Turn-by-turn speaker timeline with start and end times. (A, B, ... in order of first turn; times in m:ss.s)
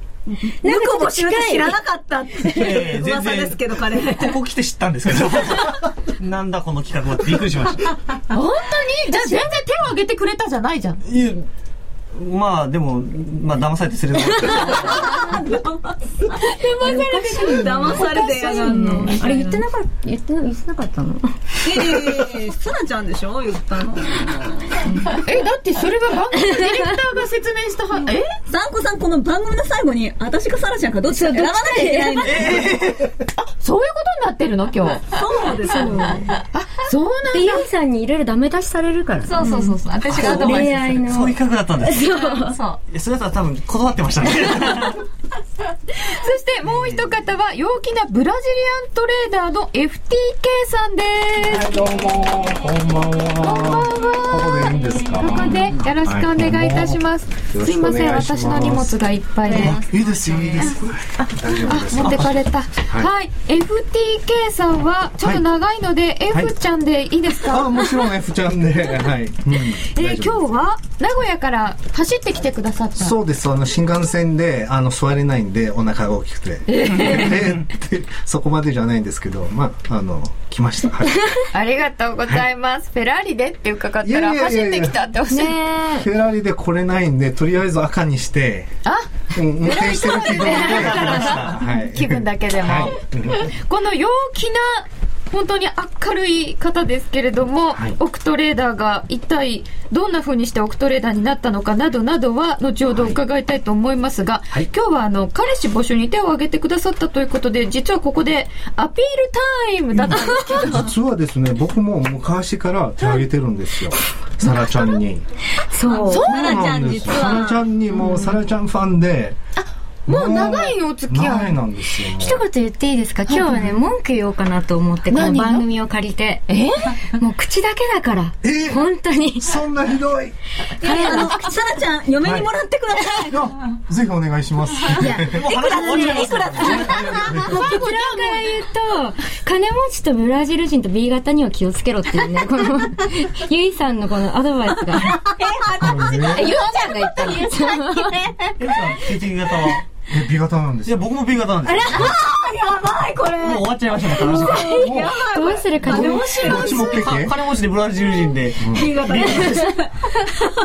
0:00.3-0:04.4 A
0:00.6-0:01.8 B
0:02.4-0:08.0 C
0:08.3-0:11.0 D
0:11.1-0:11.5 C
0:12.1-0:15.2 C
0:14.7-0:16.0 A
0:16.3-0:18.0 D
0:16.8-0:22.2 B
0:17.0-0:19.6 A
0:21.6-0:24.9 A
0:25.1-0:28.3 D
0:28.5-0:32.7 A
0:31.1-0:32.5 B
0:32.2-0:33.2 C
0:33.5-0:35.1 D
0:35.1-0:36.2 A
0:35.6-0:36.4 B
0:36.5-0:37.7 D
0:37.3-0:39.4 B
0:39.2-0:41.1 E
0:40.1-0:42.1 C
0:40.1-0:42.6 B
0:42.0-0:42.8 E
0:42.9-0:45.0 C
0:45.9-0:51.8 D
0:46.7-0:47.1 C
0:51.5-0:55.5 F
0:53.4-0:59.8 D
0:56.0-0:59.0 F
0:59.6-1:03.1 F
1:01.2-1:07.9 D
1:07.5-1:10.5 F
1:09.8-1:13.2 D
1:13.0-1:21.2 F
1:16.7-1:17.4 D
1:21.5-1:25.6 D
1:24.0-1:25.0 F
1:25.3-1:26.1 B
1:26.0-1:28.7 F
1:29.3-1:33.5 F
1:29.6-1:50.9 D
1:30.8-1:31.5 C
1:37.7-1:38.0 F
1:50.0-1:55.2 F
1:55.6-1:56.3 B
1:55.9-1:57.6 A
1:56.0-1:56.7 D
1:56.3-1:59.4 F
1:59.6-2:01.6 D
2:00.1-2:02.4 F
2:02.1-2:06.4 B
2:03.3-2:03.7 D
2:05.1-2:05.6 D
2:06.5-2:06.9 D
2:07.2-2:09.6 B
2:08.4-2:08.8 F
2:09.4-2:10.4 F
2:10.8-2:13.5 A
2:10.8-2:11.5 B
2:12.2-2:12.5 F
2:13.3-2:15.4 F
2:15.0-2:25.4 B
2:15.1-2:17.1 C
2:15.3-2:17.2 A
2:16.9-2:17.5 F
2:17.4-2:18.5 D
2:25.4-2:26.4 A
2:25.8-2:26.5 F
2:26.2-2:28.3 E
2:26.3-2:27.8 D
2:27.2-2:28.3 B
2:28.6-2:29.8 C
2:30.1-2:31.1 F
2:30.9-2:32.1 C
2:31.8-2:37.2 A
2:33.4-2:34.9 C
2:34.2-2:36.8 B
2:34.8-2:35.2 F
2:35.9-2:37.4 F
2:36.5-2:39.9 C
2:38.2-2:40.3 A
2:38.6-2:38.9 F